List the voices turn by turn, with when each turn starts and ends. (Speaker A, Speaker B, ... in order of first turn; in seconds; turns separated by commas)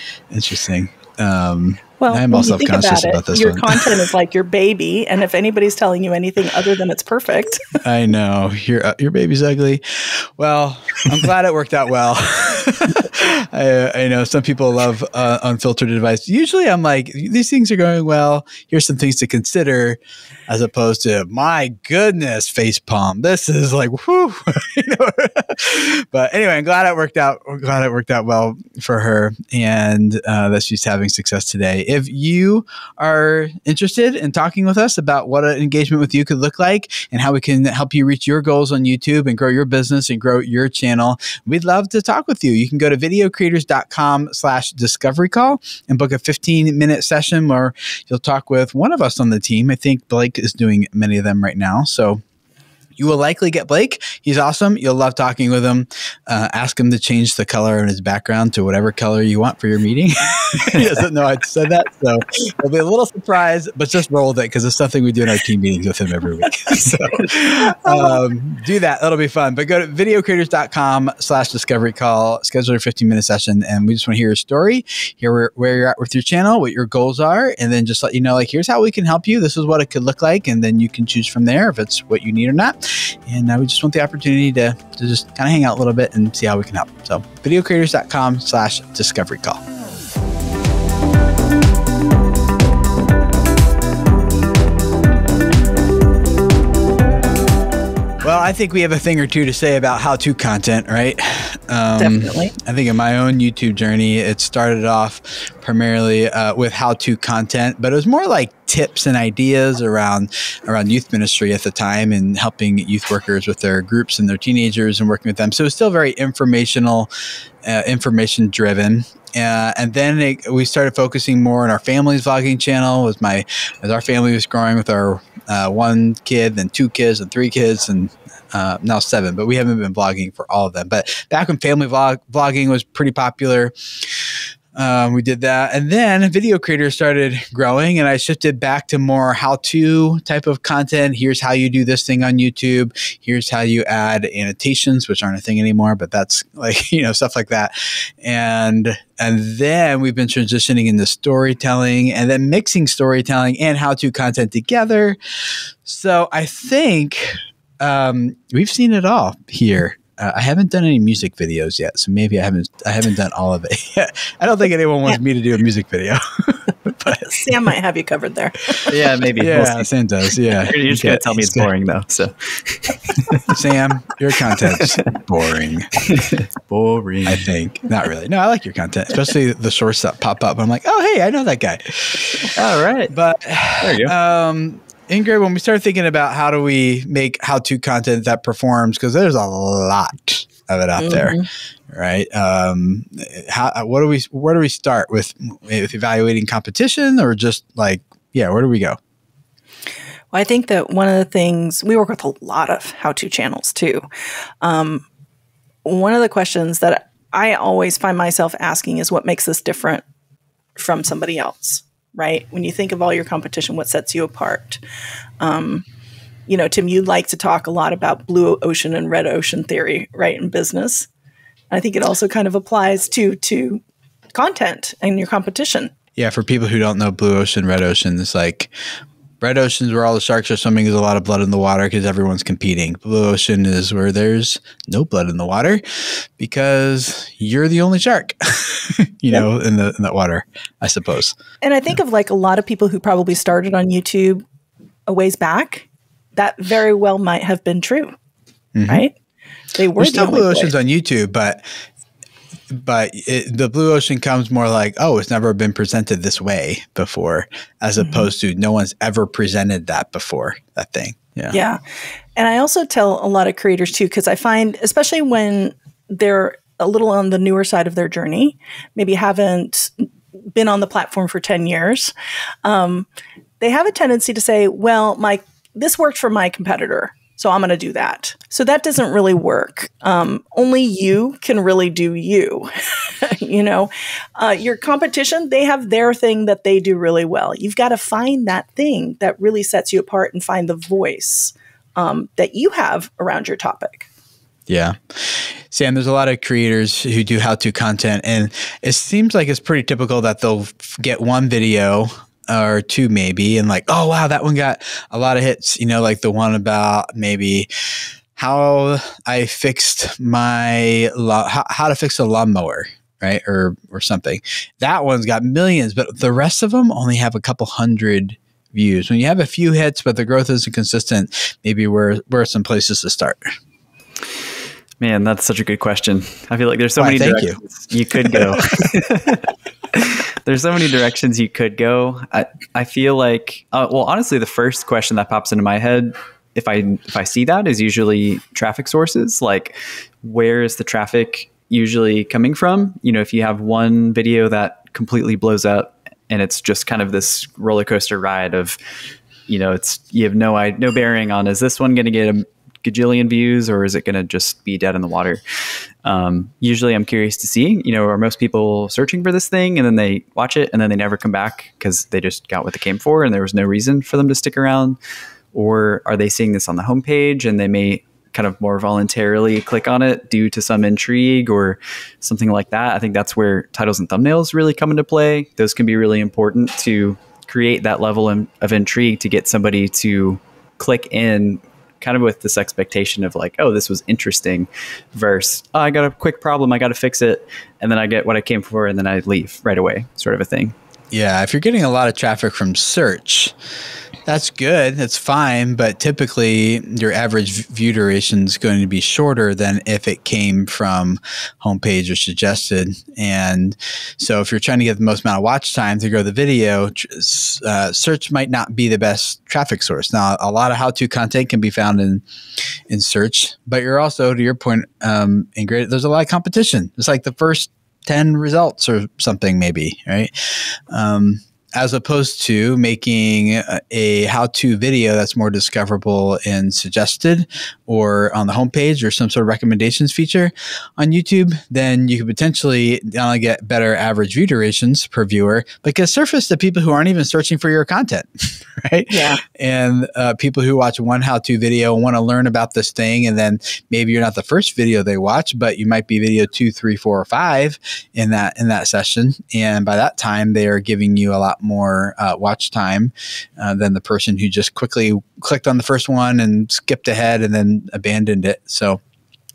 Speaker A: 0.3-4.0, Speaker B: 2.0-7.8, Speaker A: 7.8-52.2, Speaker A: 53.0-89.6, Speaker B: 67.5-68.2, Speaker A: 98.2-117.1, Speaker B: 102.0-102.5, Speaker A: 117.7-133.7, Speaker A: 134.8-155.2, Speaker A: 155.8-167.3, Speaker B: 167.2-168.9, Speaker A: 168.9-171.7, Speaker C: 168.9-169.9, Speaker C: 170.6-173.5, Speaker A: 173.4-175.9, Speaker C: 174.6-175.0, Speaker C: 176.0-177.5, Speaker A: 177.2-182.5, Speaker C: 182.6-183.1, Speaker A: 183.1-191.4, Speaker C: 183.8-184.1, Speaker B: 191.0-191.5, Speaker A: 191.9-199.0, Speaker B: 200.3-204.1, Speaker B: 204.6-205.1, Speaker B: 205.8-210.0, Speaker B: 210.8-214.8, Speaker B: 215.4-215.8, Speaker B: 216.5-221.1, Speaker B: 221.7-223.8, Speaker B: 224.3-225.9, Speaker A: 226.2-228.7, Speaker A: 229.4-241.4, Speaker B: 241.6-244.4, Speaker B: 245.1-248.2, Speaker A: 248.8-249.1, Speaker B: 248.9-249.1, Speaker B: 249.8-250.7, Speaker A: 250.0-251.7, Speaker A: 252.7-261.6, Speaker B: 258.0-258.3, Speaker B: 261.5-261.8, Speaker B: 262.4-272.1, Speaker B: 272.6-273.1, Speaker B: 273.6-294.1, Speaker A: 294.7-307.7, Speaker A: 308.4-323.4, Speaker C: 325.0-348.8, Speaker A: 327.0-327.6, Speaker A: 328.3-328.7, Speaker C: 349.5-355.4, Speaker C: 356.0-365.0, Speaker C: 365.5-390.8, Speaker A: 391.1-393.5, Speaker A: 394.3-412.2, Speaker A: 412.9-420.3, Speaker A: 420.9-459.0, Speaker B: 439.1-439.4